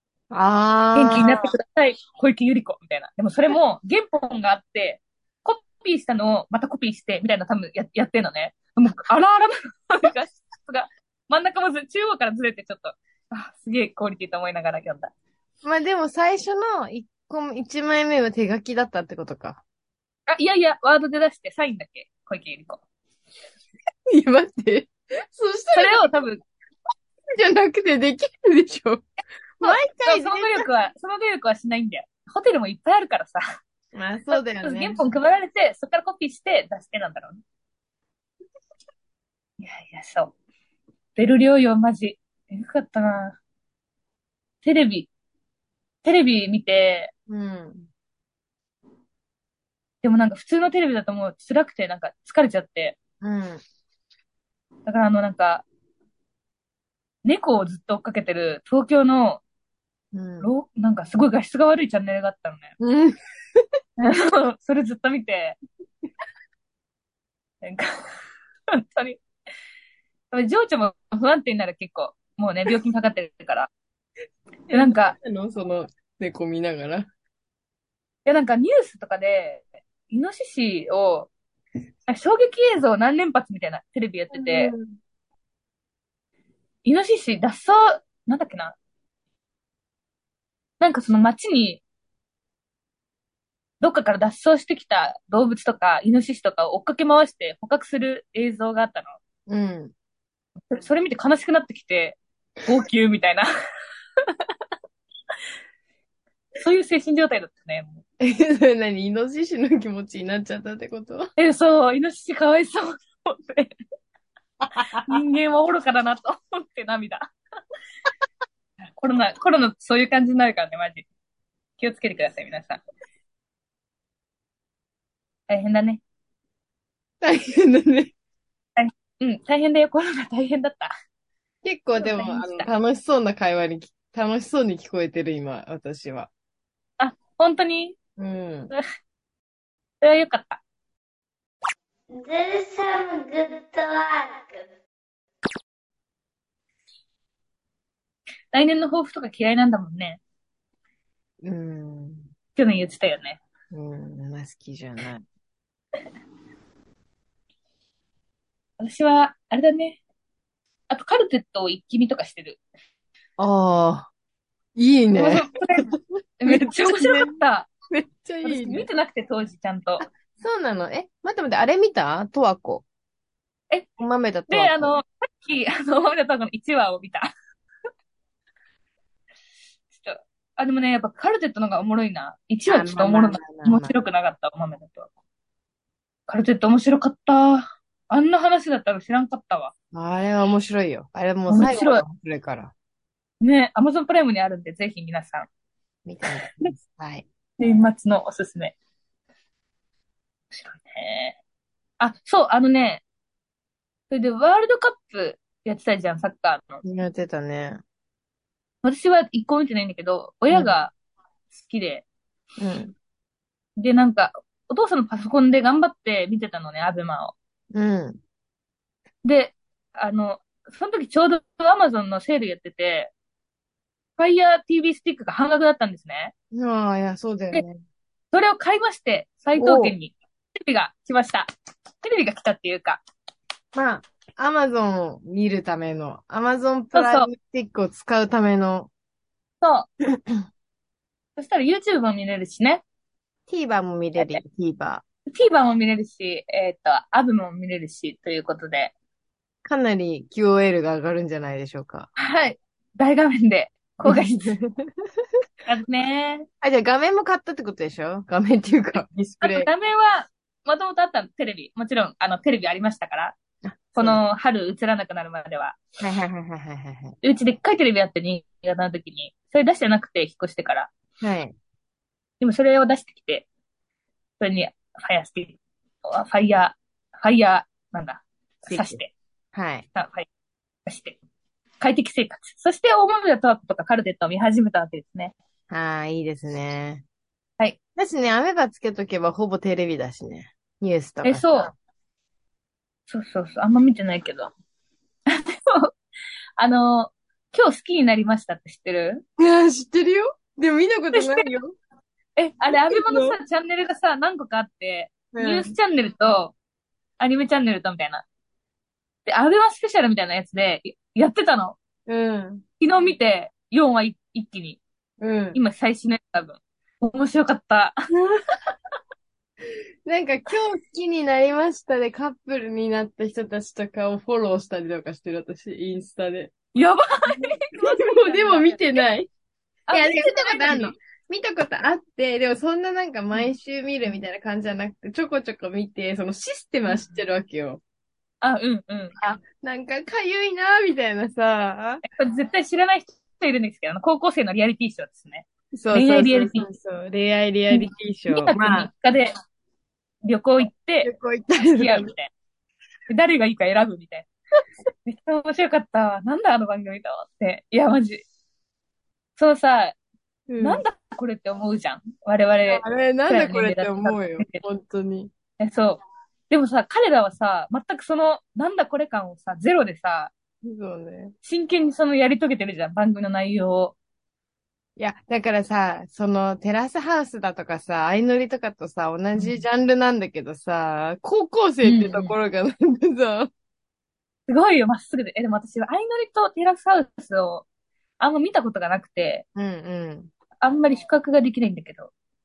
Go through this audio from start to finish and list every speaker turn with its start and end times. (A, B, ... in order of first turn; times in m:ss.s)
0:00.3-0:01.4 A
0:01.0-0:15.1 B
0:15.6-0:19.6 A
0:20.3-0:22.8 B
0:24.1-0:26.2 A
0:25.7-0:26.4 B
0:27.3-0:29.0 A
0:29.6-0:30.7 A
0:29.6-0:33.4 B
0:33.9-0:35.0 A
0:34.3-0:37.4 B
0:39.6-0:40.4 B
0:41.2-0:43.4 B
0:44.6-0:45.1 B
0:46.0-0:47.1 B
0:47.3-0:47.9 A
0:50.0-0:53.0 B
0:53.2-0:53.6 A
0:54.9-0:55.6 B
0:57.2-0:59.4 B
1:00.1-1:00.5 A
1:00.4-1:02.7 B
1:02.8-1:03.6 A
1:04.0-1:05.6 B
1:07.6-1:07.9 B
1:08.8-1:09.2 B
1:10.3-1:13.7 B
1:14.7-1:17.1 A
1:14.7-1:15.2 B
1:18.3-1:21.3 B
1:22.1-1:24.7 B
1:24.3-1:25.0 A
1:26.8-1:28.8 B
1:30.8-1:31.8 B
1:33.8-1:39.2 B
1:39.5-1:39.9 A
1:40.7-1:43.5 B
1:46.6-1:48.0 B
1:48.2-1:51.3 A
1:51.4-1:53.7 B
1:54.8-1:55.1 A
1:55.0-1:57.3 B
1:59.0-2:01.1 B
2:01.8-2:02.8 B
2:05.5-2:06.0 B
2:07.2-2:08.1 A
2:08.8-2:10.9 B
2:11.6-2:16.3 A
2:12.0-2:12.7 B
2:17.0-2:18.0 B
2:18.2-2:18.7 A
2:20.0-2:20.6 B
2:22.1-2:24.7 C
2:28.5-2:30.2 B
2:31.4-2:32.3 A
2:32.6-2:33.4 B
2:33.7-2:35.2 A
2:38.8-2:40.0 B
2:40.9-2:42.6 B
2:43.4-2:44.1 A
2:44.8-2:45.4 A
2:45.1-2:47.7 B
2:46.5-2:47.4 A
2:47.9-2:48.9 A
2:48.4-2:50.1 B
2:50.0-2:52.8 A
2:54.0-2:55.0 A
2:54.5-2:57.3 B
2:59.9-3:05.1 B
3:02.7-3:04.0 A
3:06.3-3:09.7 B
3:09.9-3:12.7 A
3:11.5-3:12.0 B
3:13.4-3:15.5 B
3:16.1-3:17.3 A
3:17.6-3:18.8 B
3:20.5-3:21.4 B
3:22.0-3:23.0 B
3:24.1-3:26.8 B
3:26.8-3:27.8 A
3:28.8-3:30.9 B
3:30.5-3:30.8 A
3:31.5-3:32.0 B
3:32.6-3:32.9 A
3:33.8-3:37.4 B
3:37.7-3:38.2 A
3:39.2-3:43.1 B
3:44.2-3:46.3 B
3:46.5-3:47.8 A
3:48.3-3:51.5 B
3:49.6-3:50.0 A
3:52.0-3:53.0 B
3:53.7-3:58.9 A
3:56.9-3:57.3 B
3:59.6-3:59.9 B
4:01.4-4:02.8 B
4:03.5-4:05.0 A
4:05.3-4:08.9 B
4:09.6-4:12.1 A
4:12.2-4:14.6 B
4:14.0-4:14.9 A
4:15.7-4:16.5 B
4:16.6-4:19.7 A
4:19.4-4:23.4 B
4:23.7-4:24.2 A
4:24.0-4:25.8 B
4:26.0-4:27.2 A
4:27.2-4:30.9 B
4:31.2-4:31.6 A
4:32.4-4:33.5 B
4:34.4-4:39.1 B
4:38.6-4:39.0 A
4:39.5-4:39.9 A
4:39.9-4:40.3 B
4:40.9-4:41.2 B
4:41.8-4:45.4 B
4:45.7-4:47.0 A
4:48.0-4:51.7 A
4:51.2-4:51.7 B
4:53.1-4:54.5 B
4:55.3-4:55.9 B
4:56.6-4:59.2 B
4:59.4-5:01.8 A
5:01.1-5:01.5 B
5:02.4-5:06.5 B
5:02.9-5:03.4 A
5:05.3-5:05.8 A
5:07.2-5:08.2 B
5:09.3-5:11.8 B
5:12.1-5:12.6 A
5:12.8-5:14.8 B
5:15.2-5:15.6 A
5:15.5-5:18.0 B
5:20.1-5:26.5 A
5:26.8-5:29.0 B
5:27.3-5:29.3 A
5:29.9-5:31.0 B
5:29.9-5:37.8 A
5:38.4-5:39.2 B
5:39.2-5:42.0 A
5:42.0-5:46.7 B
5:45.7-5:48.9 A
5:47.7-5:49.3 B
5:50.2-5:51.1 B
5:51.0-5:52.1 A
5:51.7-5:52.3 B
5:53.1-5:54.3 B
5:55.1-5:58.2 B
5:59.4-6:00.0 B
6:00.5-6:00.8 A
6:00.6-6:04.6 B
6:02.7-6:05.3 A
6:05.6-6:10.3 B
6:10.6-6:11.3 A
6:11.4-6:14.0 B
6:15.0-6:23.5 A
6:19.4-6:19.6 B
6:21.8-6:22.3 B
6:24.5-6:27.7 B
6:28.2-6:29.4 B
6:29.6-6:30.3 A
6:30.6-6:32.1 B